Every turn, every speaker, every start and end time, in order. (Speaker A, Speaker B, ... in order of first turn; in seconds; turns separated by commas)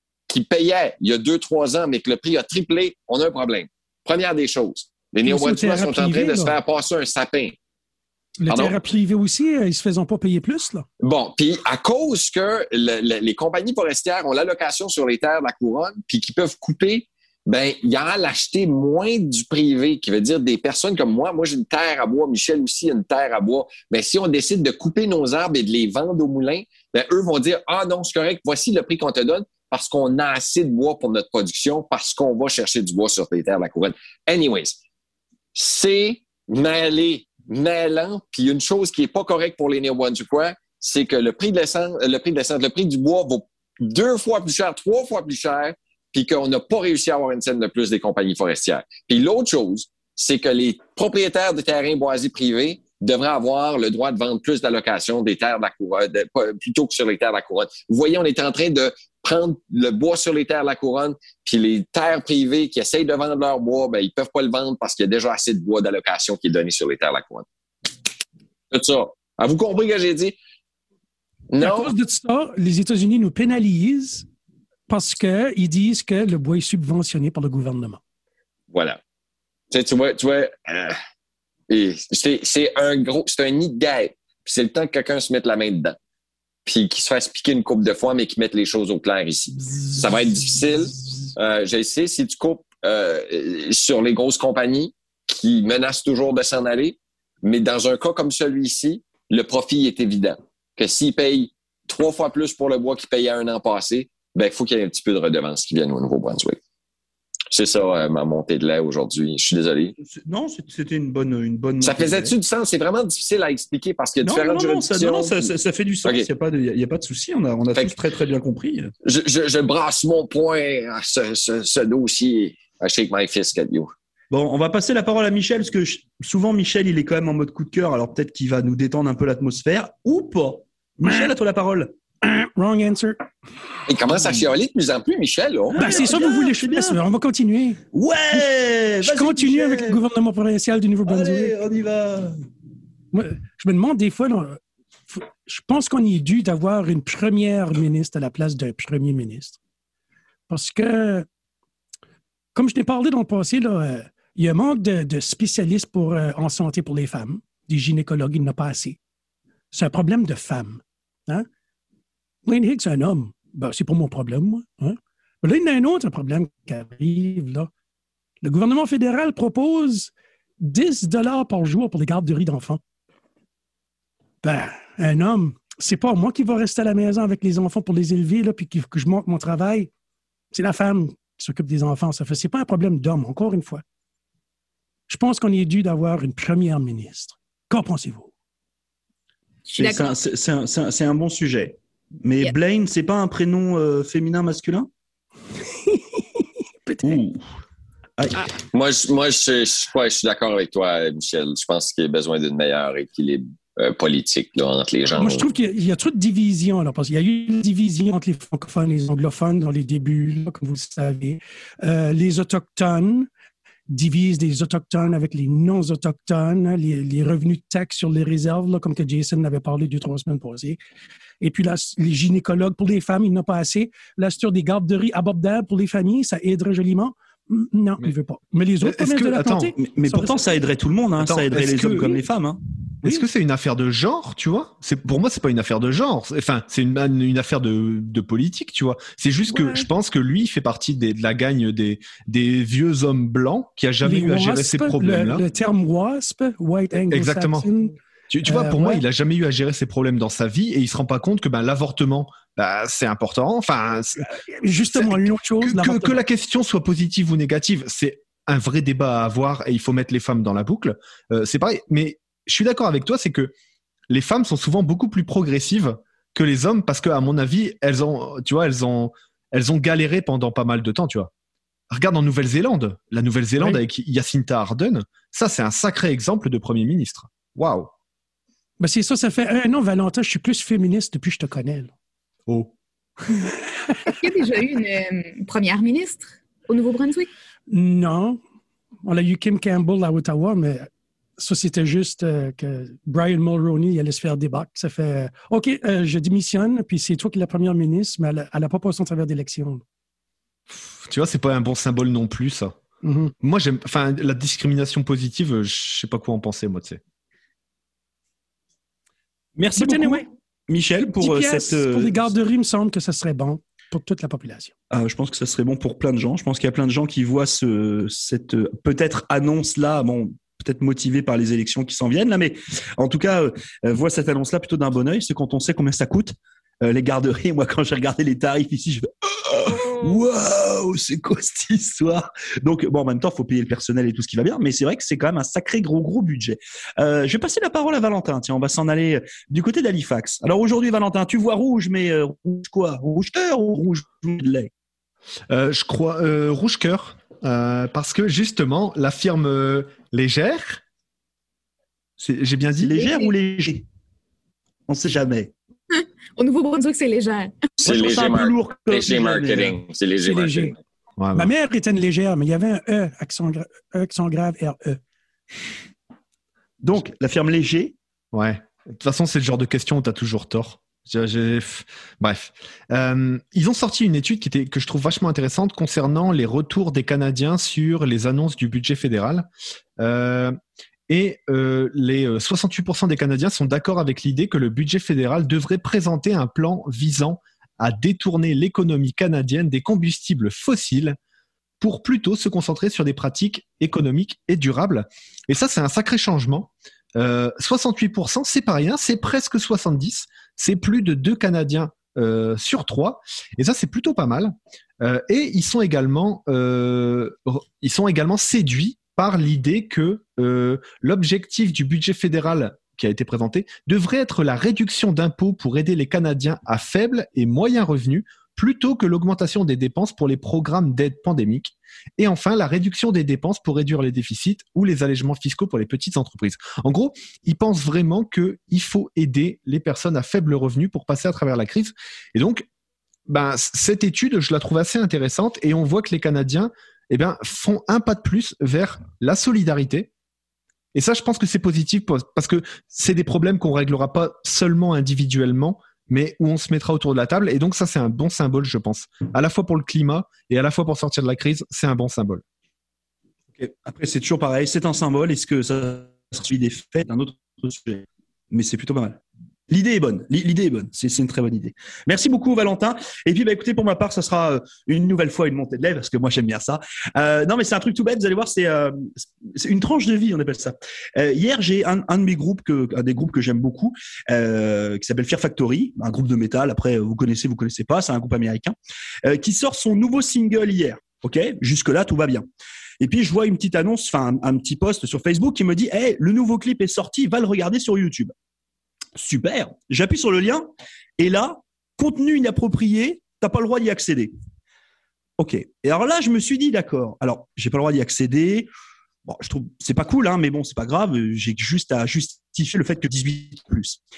Speaker A: 0.3-7.5, Speaker B: 5.2-6.6, Speaker B: 8.4-10.8, Speaker A: 8.5-8.8, Speaker A: 11.0-34.8, Speaker A: 35.5-67.4, Speaker A: 68.7-70.4, Speaker A: 71.5-71.9, Speaker B: 71.6-74.2, Speaker B: 74.9-78.0, Speaker A: 78.7-79.0, Speaker A: 79.7-80.9, Speaker A: 81.7-86.0, Speaker A: 86.7-106.6, Speaker A: 107.5-109.9, Speaker C: 110.0-112.3, Speaker A: 111.8-115.5, Speaker C: 114.2-118.9, Speaker A: 119.0-123.9, Speaker C: 124.3-131.9, Speaker B: 131.0-131.3, Speaker B: 132.2-133.2, Speaker A: 133.9-136.0, Speaker C: 134.1-134.4, Speaker C: 135.7-137.0, Speaker B: 135.7-137.8, Speaker C: 137.9-140.0, Speaker B: 139.0-141.6, Speaker C: 141.1-142.3, Speaker B: 143.1-144.6, Speaker B: 145.1-149.6, Speaker B: 150.5-151.2, Speaker B: 152.6-159.0, Speaker B: 159.7-161.4, Speaker B: 162.4-167.7, Speaker B: 168.4-172.8, Speaker B: 174.4-179.9, Speaker B: 180.5-183.8, Speaker B: 185.1-188.3, Speaker D: 189.7-190.2, Speaker C: 189.7-194.9, Speaker B: 196.8-197.2, Speaker C: 197.0-197.4, Speaker C: 198.2-198.5, Speaker A: 198.7-205.4, Speaker B: 205.1-213.3, Speaker B: 213.9-220.8, Speaker B: 221.4-230.6, Speaker E: 228.8-229.7, Speaker C: 229.8-233.2, Speaker E: 231.2-232.2, Speaker E: 233.0-245.4, Speaker B: 239.5-239.9, Speaker B: 244.0-249.0, Speaker E: 247.1-247.7, Speaker E: 248.3-254.3, Speaker B: 254.2-256.2, Speaker E: 254.9-263.5, Speaker E: 264.1-271.3, Speaker E: 271.9-277.9, Speaker B: 278.8-281.9, Speaker E: 282.5-282.7, Speaker D: 284.1-287.3, Speaker B: 287.7-288.4, Speaker B: 289.1-299.8, Speaker E: 300.7-302.7, Speaker B: 303.0-303.3, Speaker E: 303.4-307.0, Speaker C: 309.6-312.3, Speaker B: 309.7-310.2, Speaker B: 311.2-314.7, Speaker C: 314.9-344.7, Speaker E: 345.5-350.8, Speaker E: 352.2-352.9, Speaker C: 352.8-353.8, Speaker D: 352.9-353.3, Speaker C: 354.9-355.5, Speaker D: 355.9-357.5, Speaker C: 357.8-359.8, Speaker A: 357.8-360.7, Speaker B: 360.2-360.7, Speaker E: 361.2-361.5, Speaker B: 361.3-365.0, Speaker C: 366.8-367.9, Speaker E: 368.3-379.5, Speaker E: 380.0-380.6, Speaker E: 381.1-391.2, Speaker E: 391.8-432.6, Speaker E: 433.3-440.1, Speaker E: 440.9-452.4, Speaker C: 453.6-482.4, Speaker C: 483.0-488.3, Speaker C: 489.2-490.7, Speaker C: 491.2-494.3, Speaker C: 495.4-498.7, Speaker C: 499.2-504.0